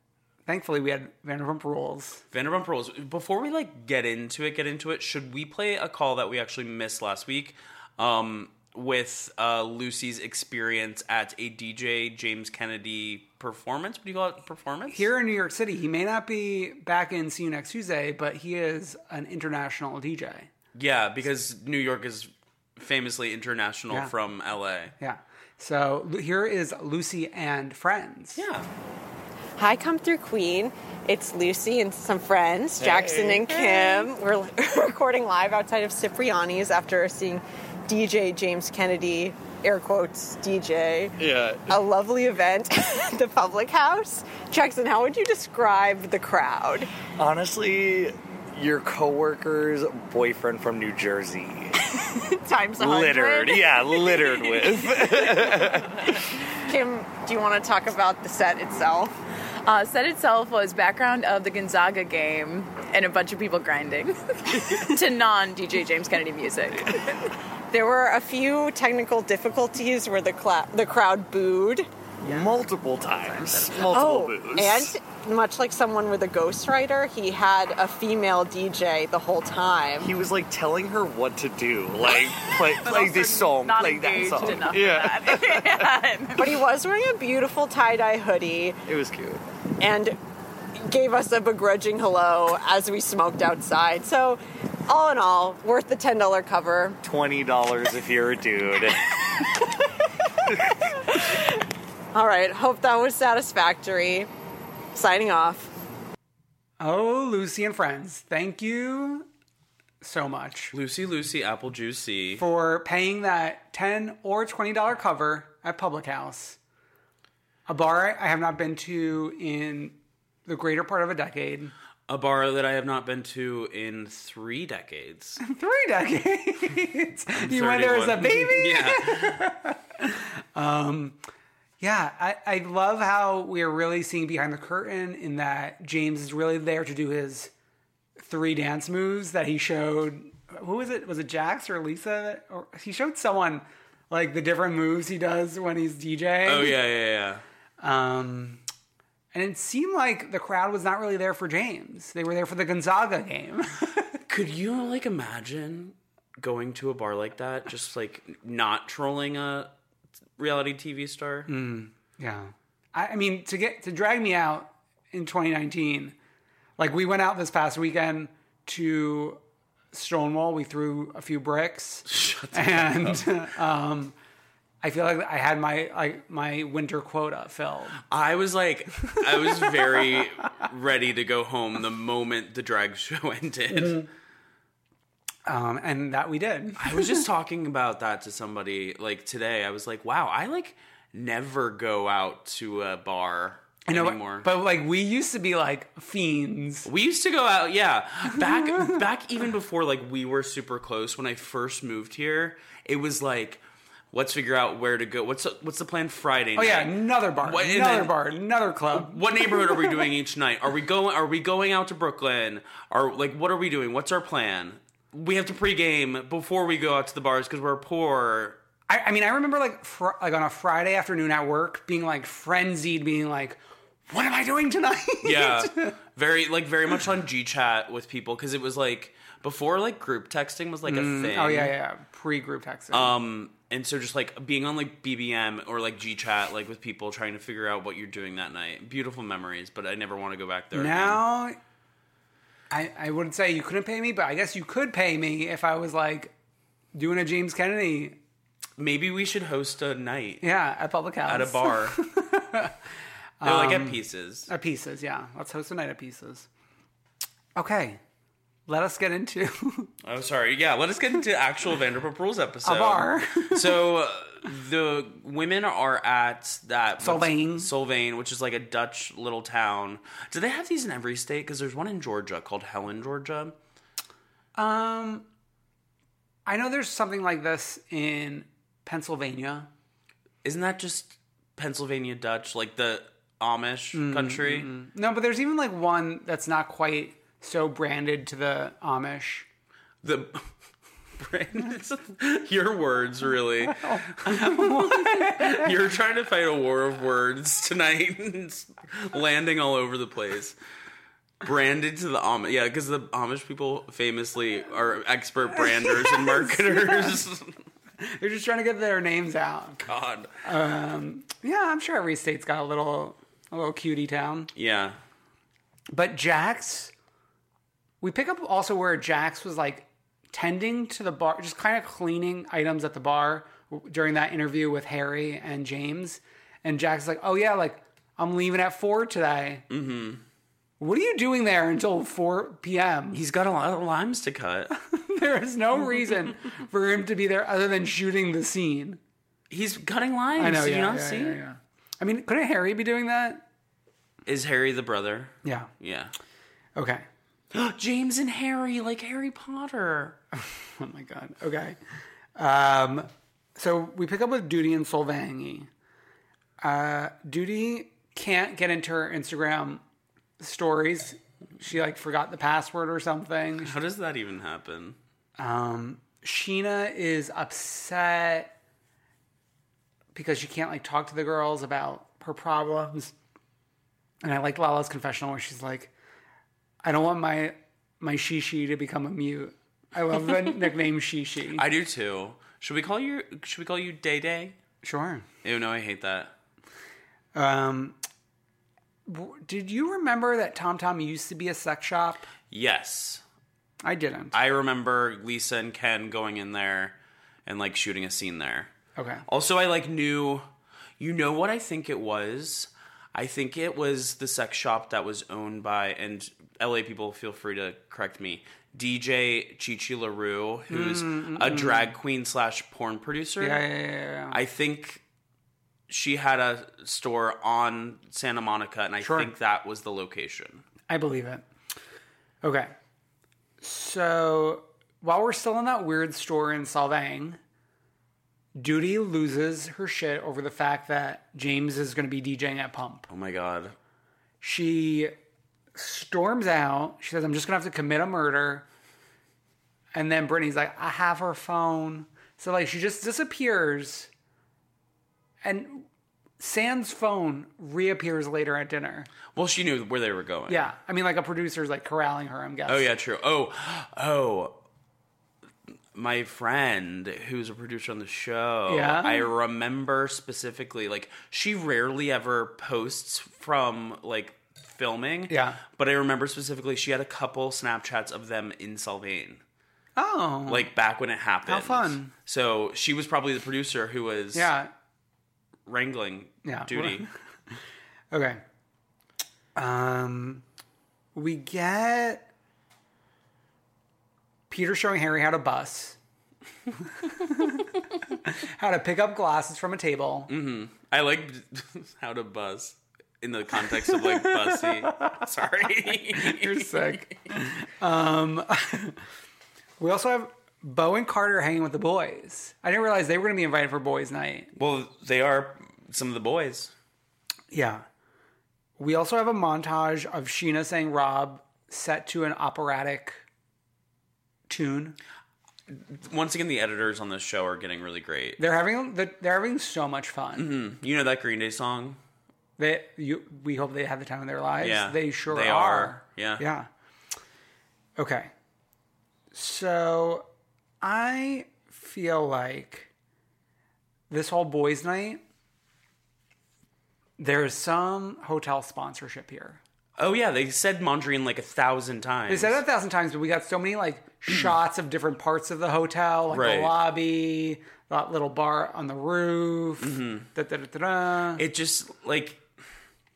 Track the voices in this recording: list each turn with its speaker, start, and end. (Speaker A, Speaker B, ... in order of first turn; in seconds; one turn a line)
Speaker A: 0.5-2.2
Speaker B: 2.3-15.1
Speaker A: 14.9-20.5
Speaker B: 20.7-24.9
Speaker A: 25.0-28.4
Speaker B: 28.4-28.7
Speaker C: 29.6-41.1
Speaker D: 32.8-33.5
Speaker D: 41.2-41.8
Speaker C: 41.7-46.9
Speaker D: 47.2-51.7
Speaker C: 52.1-55.5
Speaker D: 52.8-56.1
Speaker C: 56.6-59.1
Speaker E: 59.6-66.9
Speaker C: 67.7-71.9
Speaker D: 72.2-74.9
Speaker C: 73.9-80.1
Speaker D: 80.0-86.0
Speaker E: 82.1-86.4
Speaker C: 86.4-88.8
Speaker D: 88.8-89.4
Speaker C: 89.8-90.2
Speaker C: 90.8-97.0
Speaker D: 97.0-99.0
Speaker C: 102.1-104.3
Speaker C: 104.9-105.7
Speaker A: 106.8-109.3
Speaker A: 110.0-110.7
Speaker B: 110.7-112.4
Speaker A: 112.4-116.6
Speaker A: 117.7-121.7
Speaker B: 122.1-125.4
Speaker A: 125.4-131.2
Speaker B: 127.4-129.5
Speaker A: 131.8-137.5
Speaker A: 138.2-146.8
Speaker B: 146.4-147.4
Speaker A: 147.8-148.6
Speaker A: 149.3-153.9
Speaker B: 154.3-159.7
Speaker B: 160.4-161.5
Speaker A: 161.5-166.1
Speaker A: 166.8-169.4
Speaker A: 169.9-174.1
Speaker B: 172.1-173.4
Speaker A: 174.8-178.0
Speaker B: 178.1-184.0
Speaker A: 179.5-180.1
Speaker A: 183.7-184.1
Speaker A: 185.4-187.2
Speaker B: 186.8-194.5
Speaker A: 193.9-196.9
Speaker B: 196.8-203.6
Speaker B: 204.1-208.3
Speaker A: 206.6-209.9
Speaker B: 208.9-218.6
Speaker A: 218.9-225.9
Speaker B: 225.2-231.7
Speaker A: 230.9-233.1
Speaker B: 232.9-241.2
Speaker A: 240.7-241.6
Speaker A: 242.7-246.3
Speaker A: 246.9-248.2
Speaker B: 248.8-250.4
Speaker A: 250.4-252.8
Speaker B: 251.2-252.0
Speaker A: 253.4-256.5
Speaker B: 253.4-254.5
Speaker A: 257.6-258.0
Speaker A: 258.7-259.9
Speaker B: 260.0-273.5
Speaker A: 262.6-263.8
Speaker A: 267.0-267.7
Speaker A: 274.6-275.3
Speaker A: 276.5-279.7
Speaker B: 280.4-284.7
Speaker A: 283.9-289.5
Speaker B: 290.0-290.5
Speaker B: 291.2-300.6
Speaker A: 293.7-295.7
Speaker B: 301.4-307.6
Speaker A: 305.8-307.1
Speaker A: 308.0-309.8
Speaker B: 309.8-310.3
Speaker A: 310.4-314.5
Speaker B: 314.5-315.0
Speaker A: 315.9-316.9
Speaker A: 318.0-329.6
Speaker B: 329.7-330.2
Speaker A: 330.8-333.2
Speaker B: 333.1-334.7
Speaker A: 334.7-339.0
Speaker B: 339.5-341.4
Speaker A: 340.4-343.4
Speaker B: 344.2-346.1
Speaker A: 345.4-345.7
Speaker A: 346.8-347.0
Speaker B: 347.5-350.2
Speaker A: 350.4-351.8
Speaker A: 352.4-355.7
Speaker A: 356.6-359.8
Speaker A: 360.4-363.7
Speaker B: 363.6-365.0
Speaker A: 365.4-368.5
Speaker A: 370.1-373.1
Speaker A: 374.2-375.9
Speaker A: 376.8-381.6
Speaker B: 381.6-384.6
Speaker A: 384.8-385.2
Speaker B: 385.4-386.3
Speaker A: 387.3-388.0
Speaker A: 389.1-392.3
Speaker B: 392.5-393.2
Speaker A: 393.8-394.4
Speaker B: 394.3-396.9
Speaker B: 397.4-398.7
Speaker A: 399.0-399.2
Speaker B: 399.3-400.4
Speaker B: 401.0-413.6
Speaker A: 410.7-411.9
Speaker A: 413.4-414.4
Speaker B: 414.3-415.0
Speaker B: 415.9-420.6
Speaker A: 419.0-419.3
Speaker A: 420.9-421.4
Speaker A: 422.4-422.7
Speaker A: 423.6-427.4
Speaker A: 428.6-433.1
Speaker B: 433.1-433.7
Speaker A: 434.4-435.1
Speaker A: 435.7-438.6
Speaker A: 439.9-444.1
Speaker A: 445.4-445.9
Speaker A: 446.4-449.1
Speaker B: 449.3-450.7
Speaker A: 450.5-452.9
Speaker B: 452.7-454.6
Speaker B: 455.9-469.4
Speaker A: 458.7-459.3
Speaker A: 465.3-465.6
Speaker A: 469.9-470.7
Speaker B: 470.5-474.5
Speaker A: 471.4-472.1
Speaker A: 474.3-474.7
Speaker B: 475.6-477.1
Speaker A: 476.4-477.1
Speaker A: 478.1-478.4
Speaker A: 479.6-480.4
Speaker A: 481.1-482.3
Speaker A: 484.5-486.0
Speaker A: 487.0-487.7
Speaker A: 488.2-490.3
Speaker B: 490.3-497.1
Speaker A: 493.8-495.1
Speaker A: 496.1-499.0
Speaker A: 499.8-504.5
Speaker B: 504.6-506.7
Speaker A: 507.5-507.8
Speaker A: 508.8-513.2
Speaker A: 514.5-515.0
Speaker B: 515.7-518.4
Speaker A: 518.4-520.5
Speaker B: 520.4-522.0
Speaker A: 522.6-526.7
Speaker B: 524.6-526.4
Speaker A: 528.0-528.3
Speaker A: 529.3-530.2
Speaker A: 530.8-532.9
Speaker A: 534.1-535.2
Speaker A: 537.2-539.6
Speaker B: 540.0-542.6
Speaker A: 542.3-551.4
Speaker B: 546.3-546.8
Speaker B: 549.8-550.3
Speaker B: 551.4-552.4